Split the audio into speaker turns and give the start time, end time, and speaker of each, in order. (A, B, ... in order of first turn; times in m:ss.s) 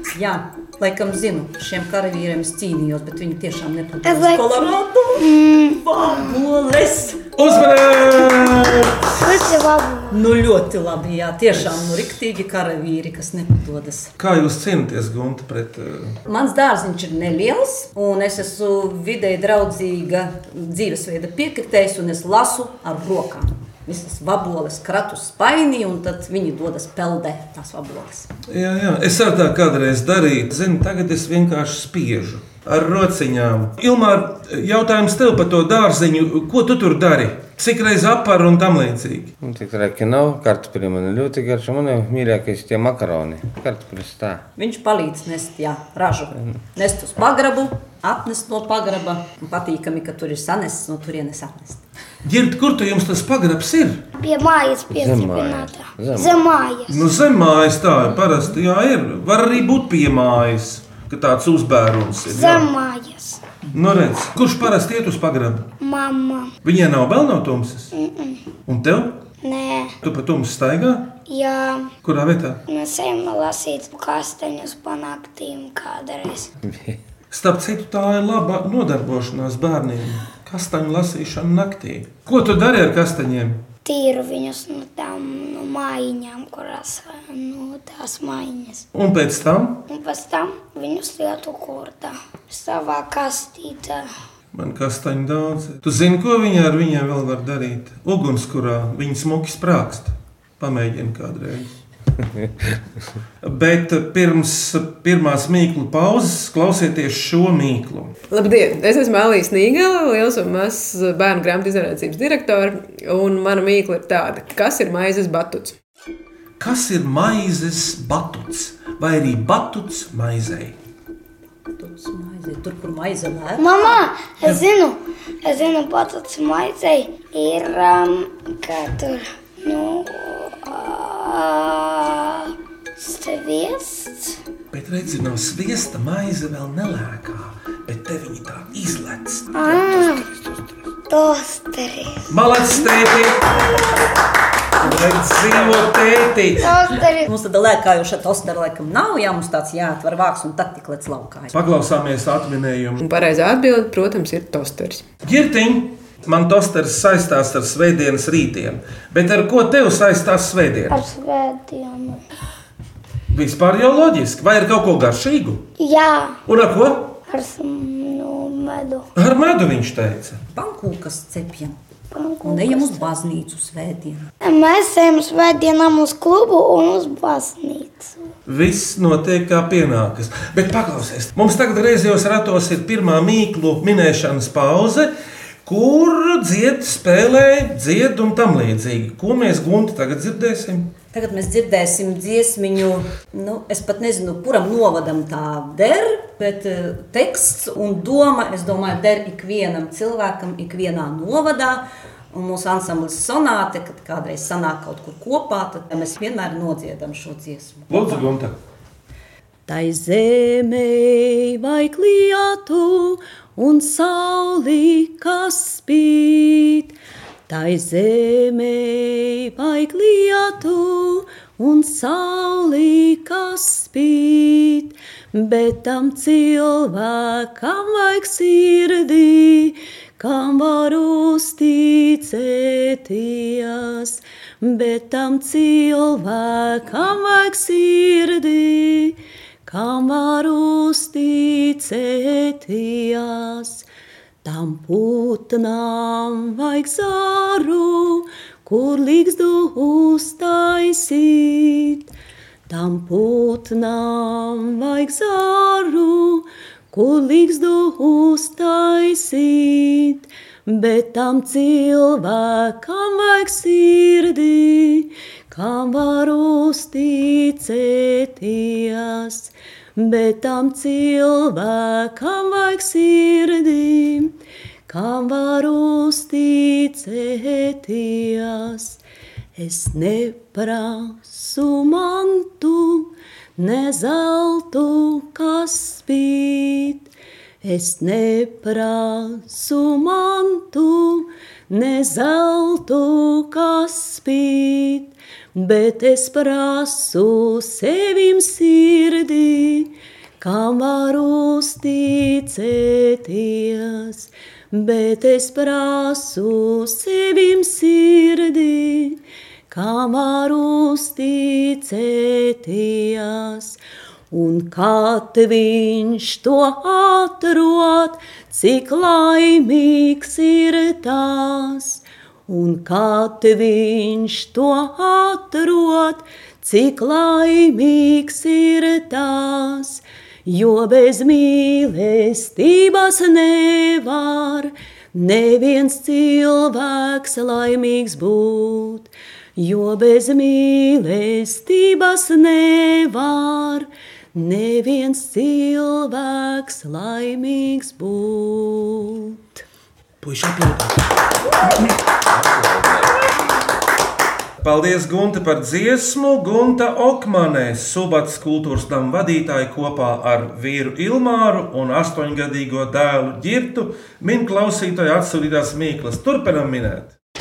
0:00.1-0:07.2 A
0:04.0-0:06.4 B
0:07.4-0:09.2 C
0:09.1-0:10.2 B
0:10.1-0:14.1 A
0:11.6-0:12.0 C
0:14.2-0:16.2 C
0:16.3-0:28.3 A
0:28.5-0:39.3 C
0:39.4-0:44.4 D
0:44.6-0:51.8 A
0:52.2-0:54.0 C
0:54.2-0:57.1 B
0:55.0-0:56.4 D
0:56.9-1:02.7 C
1:02.3-1:03.4 B
1:03.7-1:05.7 C
1:05.8-1:06.5 B
1:06.6-1:07.9 C
1:07.9-1:08.5 B
1:08.7-1:09.2 C
1:09.4-1:10.0 B
1:10.0-1:11.1 C
1:11.3-1:11.9 B
1:12.0-1:12.6 C
1:12.7-1:16.5 B
1:16.7-1:17.0 D
1:17.3-1:23.6 C
1:23.8-1:28.8 B
1:29.0-1:29.8 C
1:29.9-1:34.1 B
1:34.5-1:41.7 C
1:43.4-1:48.1 C
1:48.3-1:55.8 E
1:56.6-2:00.8 C
2:01.8-2:04.6 A
2:03.6-2:14.4 B
2:14.7-2:19.8 C
2:19.5-2:20.3 B
2:21.1-2:22.3 B
2:22.3-2:23.7 C
2:24.8-2:26.8 C
2:26.6-2:27.3 B
2:27.3-2:31.6 A
2:31.5-2:33.0 C
2:33.0-2:35.0 E
2:35.2-2:41.0 C
2:40.9-2:42.2 B
2:43.3-2:45.7 C
2:45.8-2:46.4 B
2:46.5-2:47.2 C
2:47.3-2:49.1 B
2:49.2-2:50.4 C
2:50.5-2:51.8 A
2:52.1-2:53.1 B
2:52.4-2:54.3 A
2:54.4-2:58.3 B
2:58.5-3:05.1 C
3:05.6-3:10.9 C
3:11.1-3:28.3 A
3:27.9-3:28.6 C
3:29.7-3:37.0 A
3:37.5-4:03.9 A
4:04.4-4:12.1 A
4:12.7-4:34.3 A
4:34.9-4:39.0 A
4:39.6-4:47.1 A
4:47.6-5:13.8 A
5:14.3-5:49.6 A
5:50.2-5:51.0 C
5:52.2-5:53.1 D
5:54.6-6:07.1 C